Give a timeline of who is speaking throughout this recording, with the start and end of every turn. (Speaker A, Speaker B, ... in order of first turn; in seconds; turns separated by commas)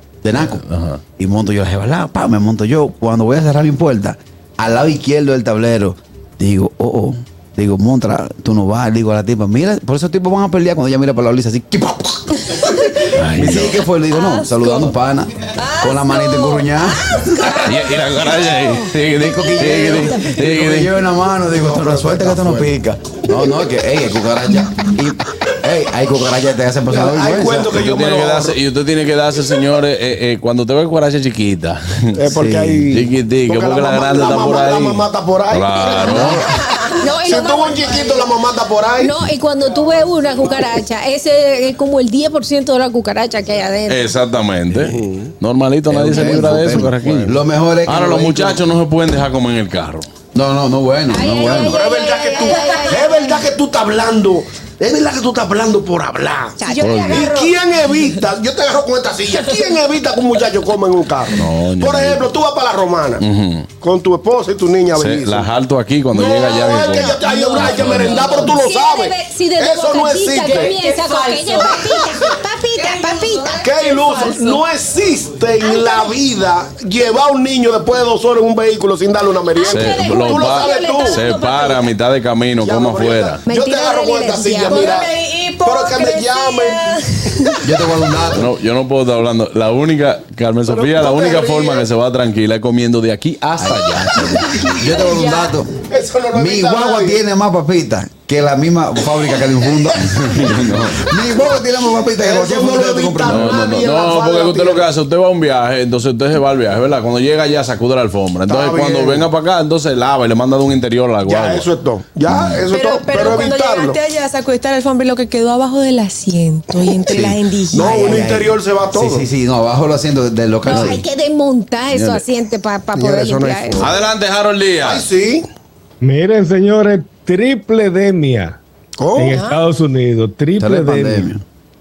Speaker A: 0.2-0.6, Speaker B: 0.4-1.0, Speaker A: 1.2-17.7, Speaker B: 13.1-13.8, Speaker C: 14.1-14.9, Speaker C: 15.5-17.7, Speaker B: 17.6-21.0, Speaker A: 18.8-27.7, Speaker D: 21.5-22.7, Speaker D: 26.9-28.6, Speaker B: 27.7-32.2, Speaker D: 32.1-36.6, Speaker A: 32.3-32.9, Speaker B: 32.9-36.5, Speaker E: 35.9-38.2, Speaker A: 36.1-36.4, Speaker D: 37.2-39.1, Speaker E: 39.0-44.1, Speaker B: 43.9-50.1, Speaker D: 44.9-45.3, Speaker A: 45.9-48.6, Speaker A: 50.3-51.8, Speaker E: 51.1-53.5, Speaker D: 51.4-63.2, Speaker C: 52.4-53.0, Speaker E: 56.6-57.5, Speaker C: 56.6-57.5, Speaker B: 56.8-57.2, Speaker B: 61.3-62.2, Speaker B: 63.2-63.7, Speaker D: 63.8-65.5, Speaker B: 64.9-68.3, Speaker D: 66.1-70.7, Speaker E: 66.1-73.6, Speaker C: 68.1-68.5, Speaker C: 70.4-74.6, Speaker D: 73.6-81.2, Speaker E: 75.6-76.2, Speaker E: 79.5-81.8, Speaker B: 79.7-83.4, Speaker D: 82.6-86.8, Speaker E: 83.5-85.0, Speaker C: 84.6-87.6, Speaker A: 87.6-88.5, Speaker B: 88.3-94.6, Speaker D: 90.7-91.8, Speaker A: 93.6-95.7, Speaker C: 94.7-95.5, Speaker D: 95.9-97.2, Speaker A: 96.3-103.6, Speaker B: 100.3-100.7, Speaker D: 102.2-104.8, Speaker B: 103.2-111.7, Speaker D: 108.5-109.3, Speaker D: 111.2-114.0, Speaker A: 112.3-112.6, Speaker C: 112.7-118.2, Speaker A: 117.1-121.0, Speaker D: 117.7-119.2, Speaker E: 120.6-123.9, Speaker B: 121.9-122.2, Speaker D: 123.0-124.0, Speaker B: 123.8-125.0, Speaker D: 124.8-125.5, Speaker F: 126.0-128.6, Speaker D: 129.0-129.4, Speaker F: 129.1-131.3, Speaker C: 129.3-129.6, Speaker A: 130.6-131.4